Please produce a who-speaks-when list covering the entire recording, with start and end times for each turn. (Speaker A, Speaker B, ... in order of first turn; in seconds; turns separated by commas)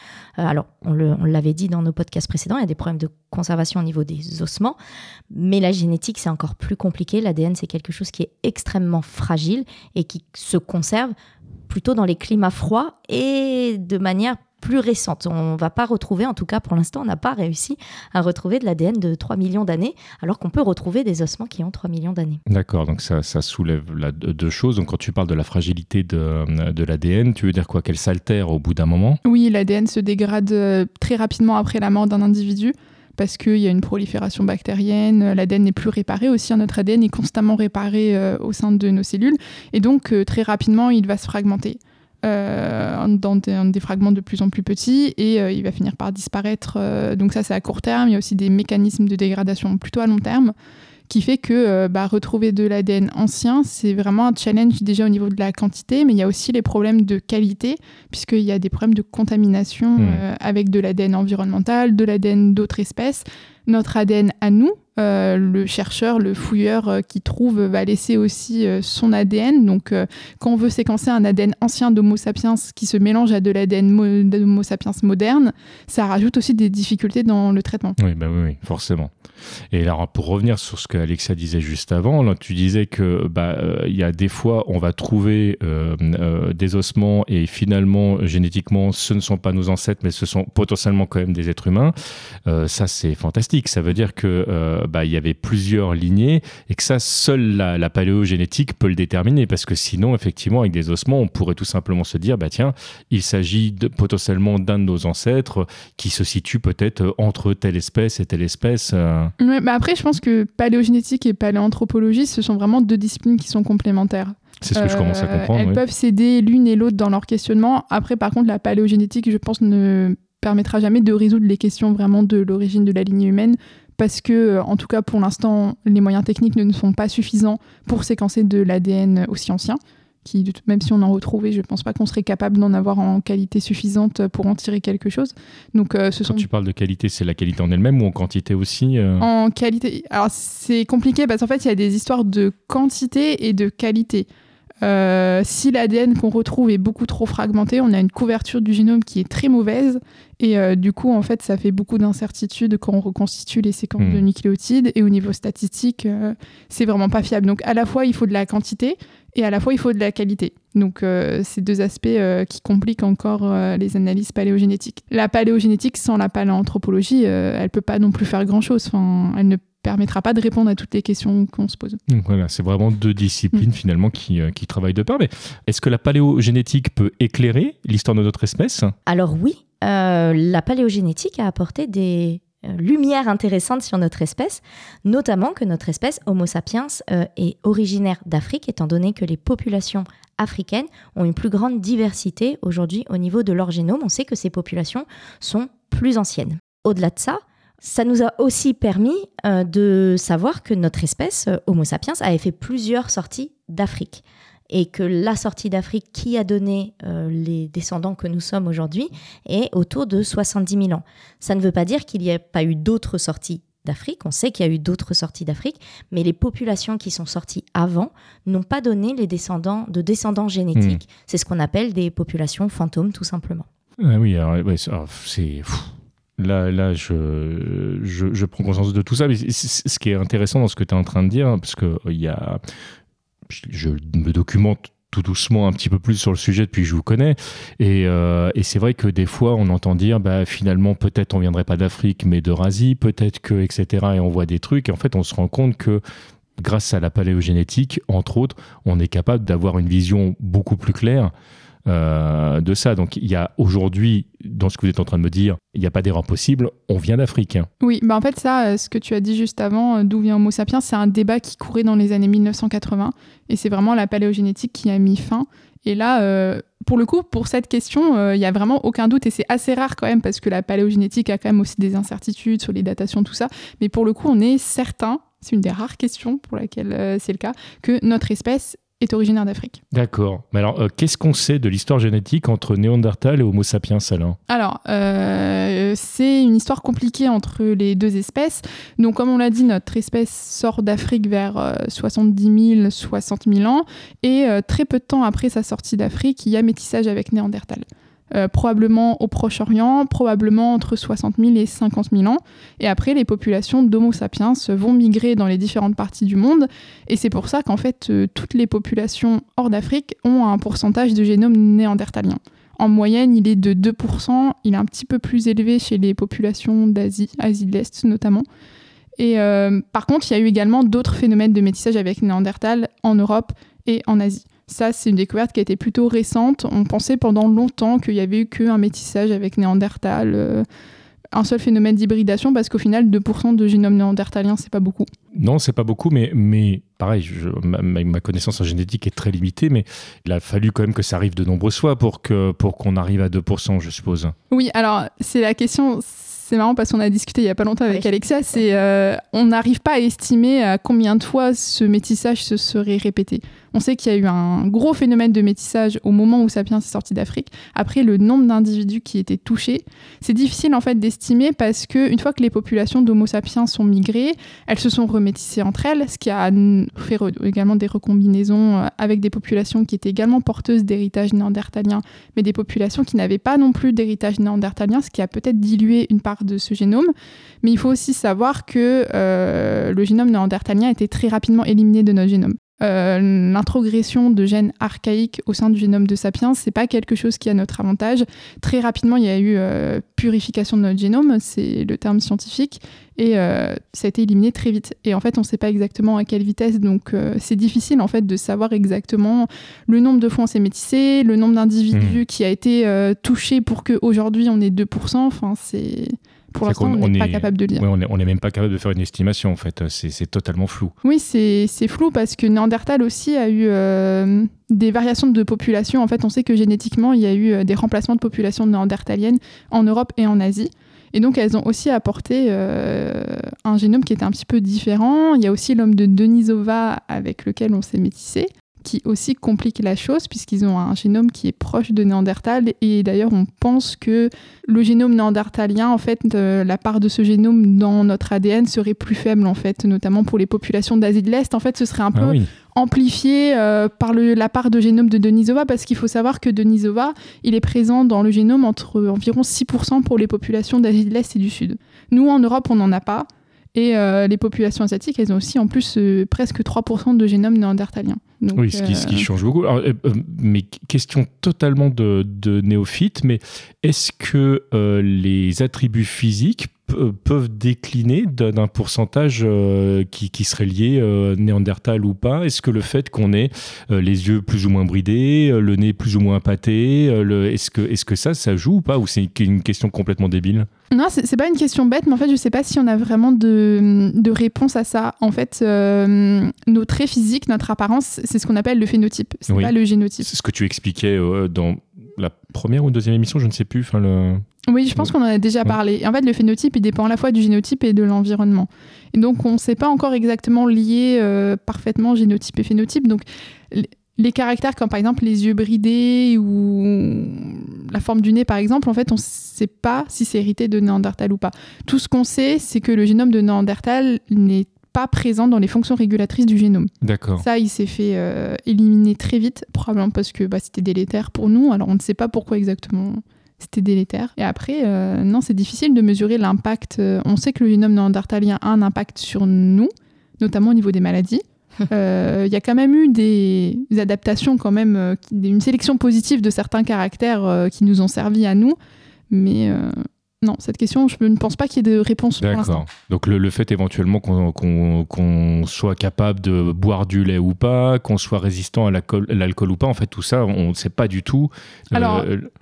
Speaker A: 0.4-4.8, Speaker A: 5.3-11.1, Speaker A: 11.7-22.4, Speaker B: 22.5-29.2, Speaker C: 29.2-50.5, Speaker C: 51.1-78.0, Speaker B: 60.0-60.2, Speaker B: 78.0-79.1, Speaker B: 79.7-91.9, Speaker B: 92.5-109.3, Speaker C: 109.4-136.4, Speaker B: 114.6-115.8, Speaker B: 136.3-139.3, Speaker C: 139.2-144.3, Speaker C: 144.8-172.0, Speaker B: 154.0-154.2, Speaker B: 172.1-178.9, Speaker A: 179.1-223.7, Speaker B: 220.7-221.0, Speaker B: 224.0-232.6, Speaker B: 233.5-246.0, Speaker B: 246.6-251.3, Speaker B: 251.8-257.7, Speaker C: 257.8-279.8, Speaker B: 279.9-284.4, Speaker C: 284.5-318.4, Speaker C: 319.2-330.6, Speaker C: 331.3-335.1, Speaker B: 335.3-344.3, Speaker C: 344.5-377.1, Speaker C: 377.6-407.8, Speaker B: 401.9-402.2, Speaker B: 406.6-410.9, Speaker C: 411.0-459.3, Speaker B: 442.1-442.5, Speaker B: 458.5-480.7, Speaker C: 480.9-490.3, Speaker B: 489.5-494.4, Speaker C: 494.7-538.8, Speaker B: 517.0-517.5, Speaker C: 539.3-542.8, Speaker B: 542.4-552.5, Speaker C: 551.9-552.3